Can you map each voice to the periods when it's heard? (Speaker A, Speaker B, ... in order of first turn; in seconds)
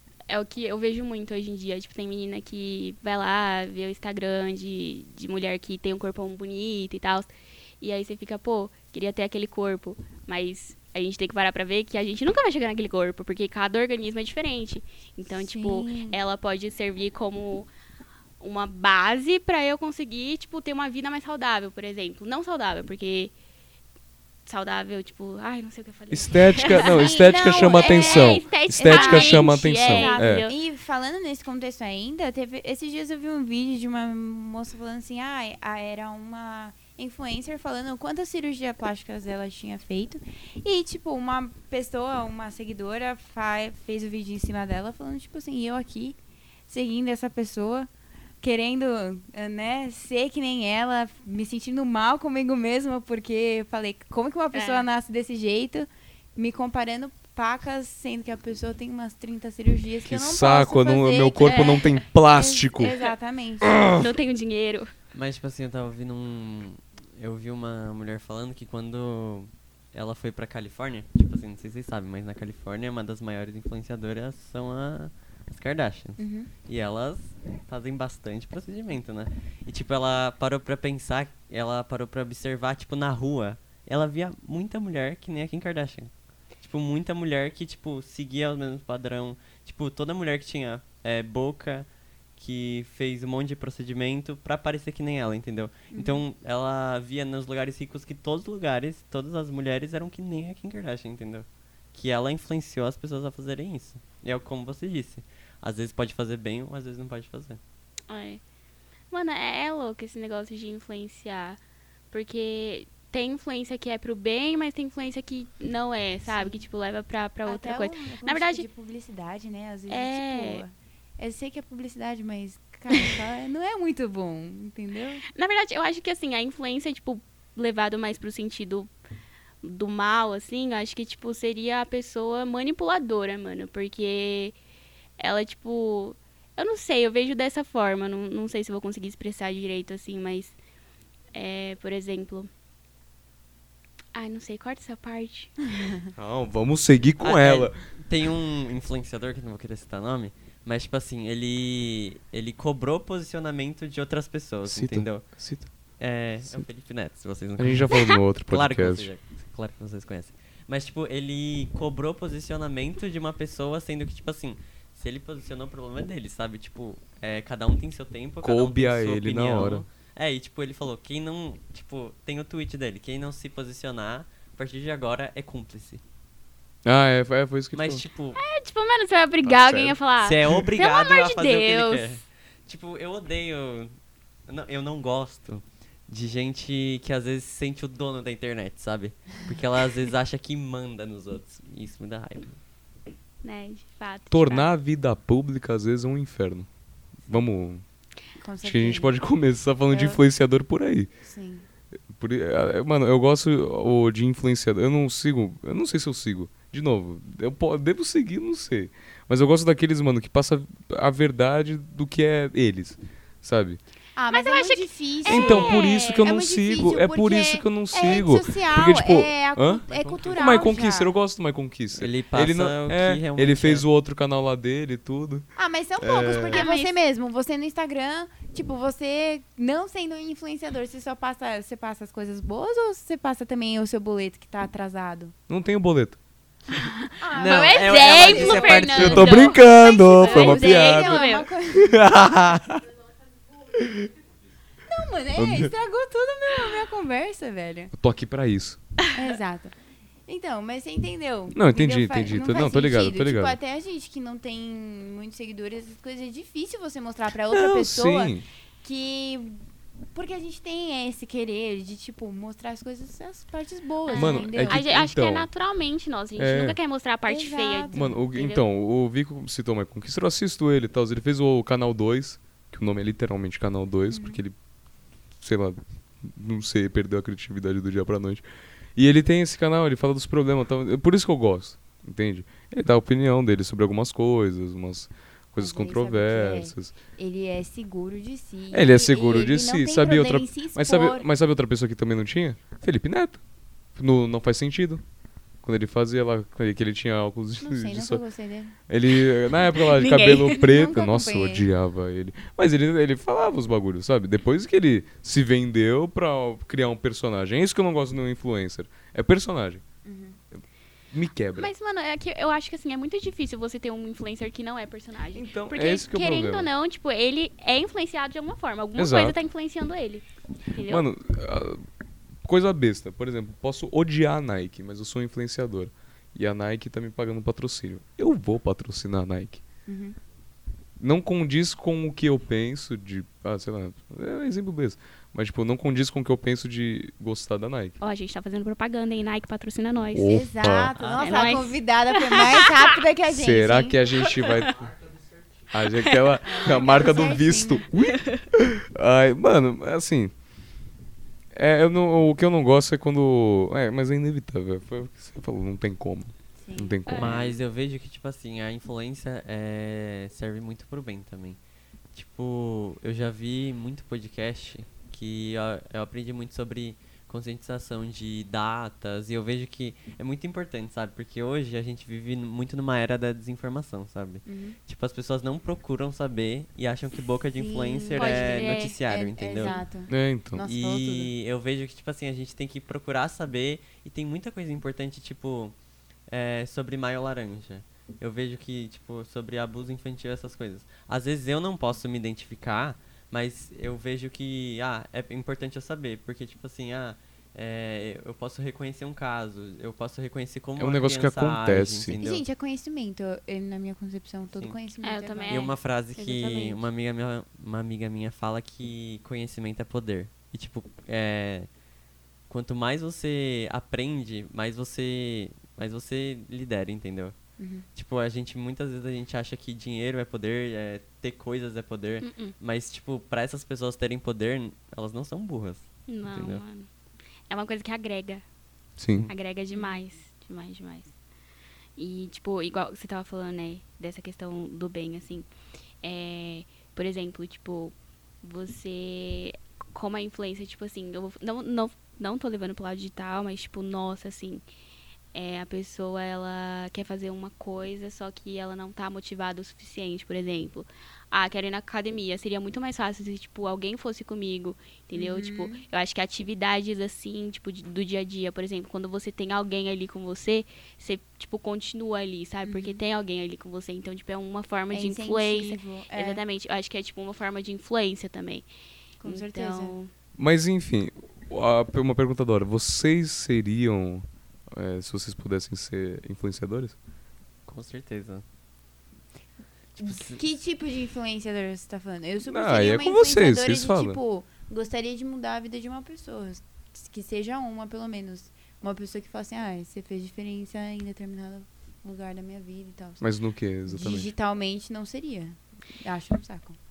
Speaker A: 0.3-7.3, 7.8-17.7, 18.4-23.3, 24.4-30.6, 54.5-54.9, 61.4-62.0, 62.8-63.1, 63.9-64.9, 108.1-108.4, 109.1-111.6, 112.1-118.7, 119.9-120.6, 125.3-128.9, 129.6-134.6, 135.2-140.6, 141.3-142.5, 144.1-145.7, 178.3-182.2, 193.4-194.7, 214.3-216.2, 226.3-226.9, 237.3-241.5, 264.1-268.6, 299.7-300.6, 311.6-321.0, 338.0-340.3, 341.2-342.7, 344.2-344.7, 346.0-346.9, 348.0-348.4, 357.1-357.6, 378.1-379.0, 379.6-379.8, 405.0-406.8, 422.2-422.5, 426.1-426.9, 427.5-428.4, 429.3-431.1, 431.9-435.5, 436.0-444.6, 445.3-468.7, 469.2-470.1
Speaker B: 15.3-16.2, 26.7-46.2, 46.7-47.9, 48.4-63.7, 76.2-76.5, 95.9-96.2, 116.2-116.6, 117.5-125.2, 198.4-199.2, 199.9-200.2, 201.2-201.7, 214.2-221.1, 225.6-235.3, 237.2-239.2, 240.2-242.1, 244.8-247.9, 249.1-249.7, 250.3-259.6, 260.1-264.8, 267.3-268.2, 274.1-274.4, 285.6-291.2, 297.6-298.8, 300.5-301.7, 310.0-310.4, 329.9-330.1, 340.2-344.0, 346.4-347.8, 356.6-357.0, 374.4-374.8, 377.6-381.3, 402.2-405.7, 417.6-417.8, 429.7-430.0, 455.1-455.8, 462.6-463.0, 464.9-466.4, 469.2-469.9, 480.0-493.2, 493.9-496.8
Speaker C: 26.1-30.5, 60.0-62.9, 146.2-147.8, 154.7-155.7, 157.6-159.1, 168.4-169.8, 176.8-178.0, 179.4-180.0, 194.3-196.7, 197.3-197.8, 198.6-201.1, 202.1-213.8, 215.2-225.4, 226.0-226.7, 235.5-236.2, 238.9-242.8, 243.7-244.1, 245.3-245.7, 247.9-248.8, 251.5-253.6, 257.5-258.4, 264.1-265.5, 266.4-266.8, 267.9-274.5, 275.4-278.4, 278.9-286.9, 288.7-293.4, 293.9-295.0, 295.6-298.2, 298.9-309.8, 311.1-311.7, 315.3-316.7, 318.9-319.4, 320.8-321.8, 322.4-329.6, 331.0-338.0, 340.1-340.9, 343.3-344.9, 345.7-350.3, 351.5-357.4, 380.1-380.6, 400.8-402.2, 429.0-429.3, 470.4-476.9, 482.4-484.2, 493.2-494.3
Speaker D: 65.1-107.6, 147.2-155.3, 156.0-176.0, 177.7-178.4, 180.2-183.9, 184.5-192.6, 219.9-220.6, 221.9-223.8, 237.3-239.5, 341.0-341.7, 357.1-361.6, 362.1-379.8, 380.6-385.7, 386.3-402.4, 405.5-411.7, 412.5-417.3, 417.9-426.6, 477.6-478.4, 480.0-480.4